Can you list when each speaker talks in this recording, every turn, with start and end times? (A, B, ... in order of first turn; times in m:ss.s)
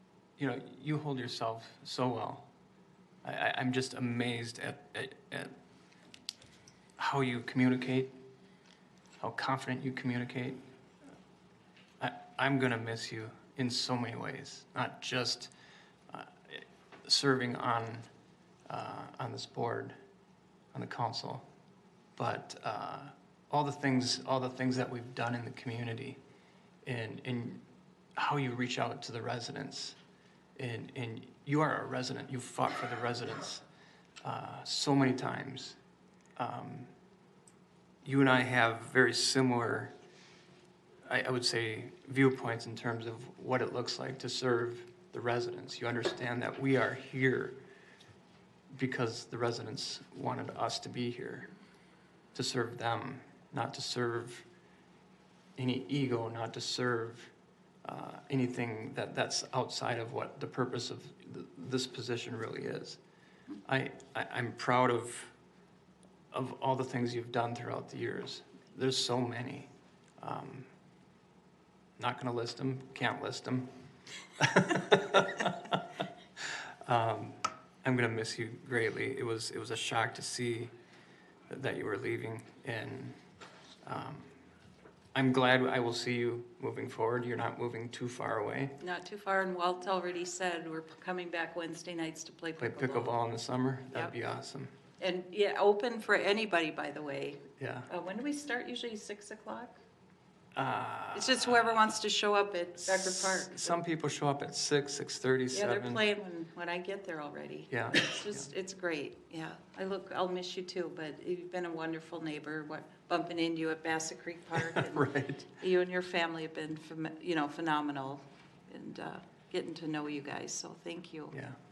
0:00.4-0:02.5 A
0:03.2-0:05.5 A
0:07.0-0:08.1 A
0:09.2-0:10.6 A
0:12.0-0:15.5 A
0:16.1-0:18.1 A
0:18.7-0:20.0 A
0:20.7-0:21.5 A
0:22.2-0:26.2 A
0:26.8-0:27.6 A
0:28.2-0:30.0 A
0:30.6-0:33.6 A
0:34.2-0:35.8 A
0:36.4-0:36.9 A
0:38.0-0:39.9 A
0:41.0-0:47.6 A
0:48.7-0:51.5 A
0:52.3-0:54.5 A
0:55.6-0:57.3 A
0:57.8-1:03.0 A
1:03.6-1:05.3 A
1:06.3-1:10.7 A
1:12.0-1:13.7 A
1:14.4-1:15.8 A
1:16.8-1:20.7 A
1:21.5-1:23.2 A
1:23.8-1:24.3 A
1:25.1-1:28.8 A
1:28.8-1:33.2 B
1:32.6-1:34.7 A
1:35.0-1:39.8 B
1:37.6-1:37.9 A
1:40.5-1:41.8 A
1:41.1-1:43.8 B
1:42.8-1:46.0 A
1:45.5-1:55.1 B
1:47.7-1:48.5 A
1:54.6-1:55.5 A
1:55.6-2:01.3 B
2:01.3-2:01.6 A